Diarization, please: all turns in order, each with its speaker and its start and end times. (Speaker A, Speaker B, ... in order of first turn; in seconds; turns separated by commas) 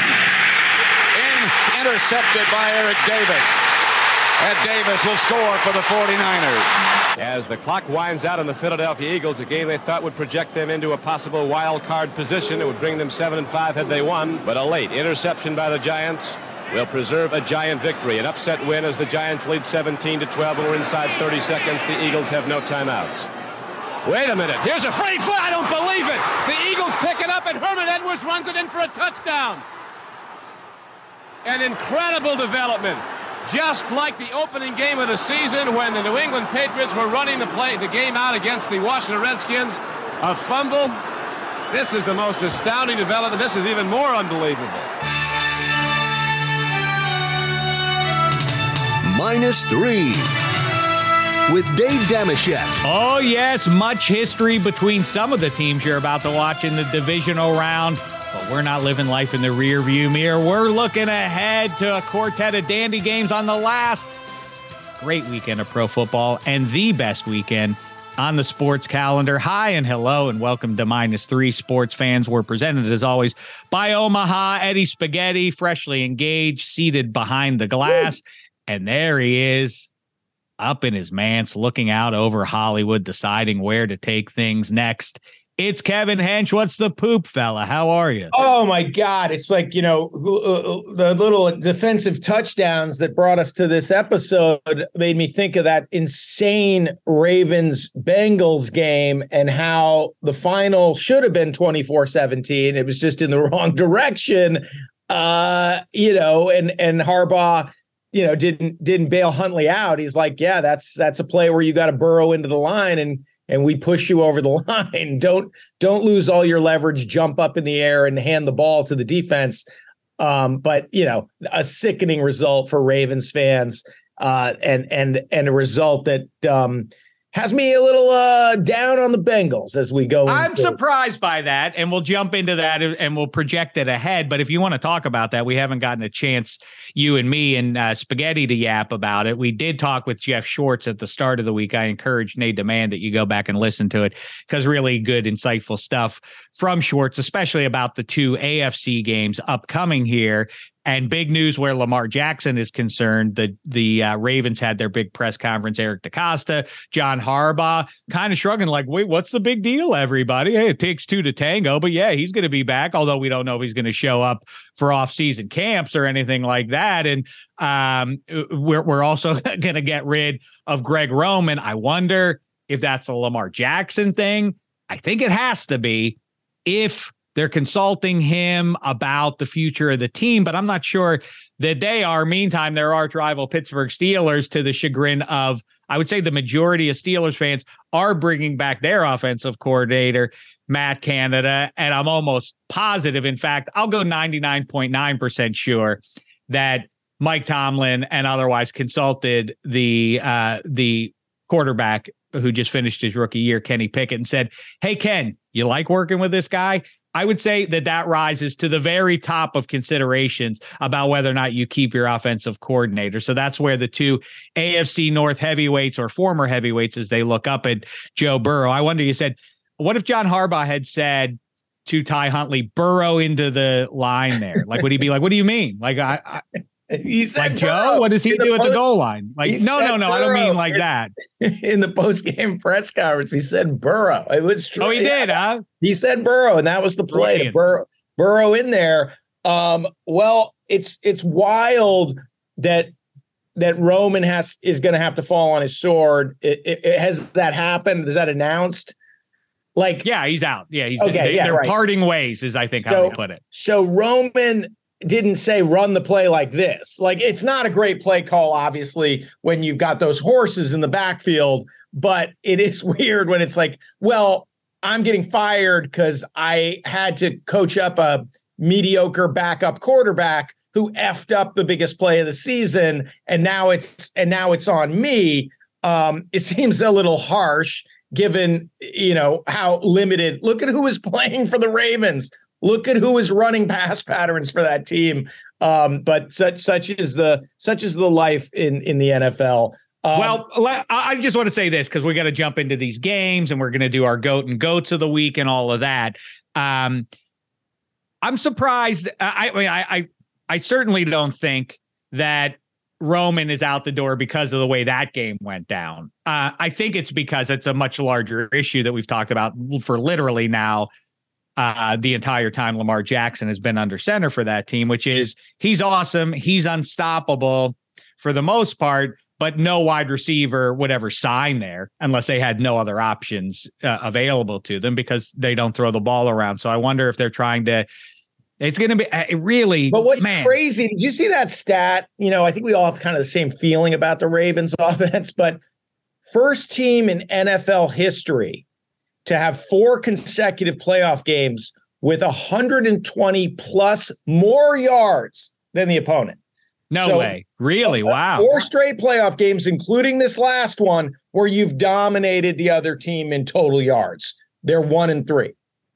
Speaker A: 1.1-3.5, Speaker A: 4.4-6.7, Speaker B: 7.2-23.3, Speaker B: 24.0-29.6, Speaker B: 31.4-41.0, Speaker B: 41.7-44.9, Speaker C: 49.0-50.3, Speaker C: 51.5-52.8, Speaker D: 52.8-64.1, Speaker D: 65.0-79.9, Speaker D: 80.6-88.3, Speaker E: 88.3-119.7, Speaker E: 120.2-130.8, Speaker D: 130.2-226.4, Speaker E: 226.9-228.8, Speaker D: 227.3-231.1, Speaker E: 229.4-230.8, Speaker E: 231.4-242.9, Speaker D: 234.8-235.6, Speaker D: 237.1-237.5, Speaker E: 243.6-248.9, Speaker E: 249.8-250.1, Speaker D: 250.0-253.4, Speaker E: 251.0-251.8, Speaker E: 252.8-290.4, Speaker D: 290.1-297.1, Speaker D: 298.2-310.9, Speaker D: 311.6-327.9, Speaker D: 328.6-330.5, Speaker E: 329.9-335.6, Speaker E: 336.3-338.6, Speaker E: 339.2-346.4, Speaker D: 346.9-348.5, Speaker E: 347.0-355.5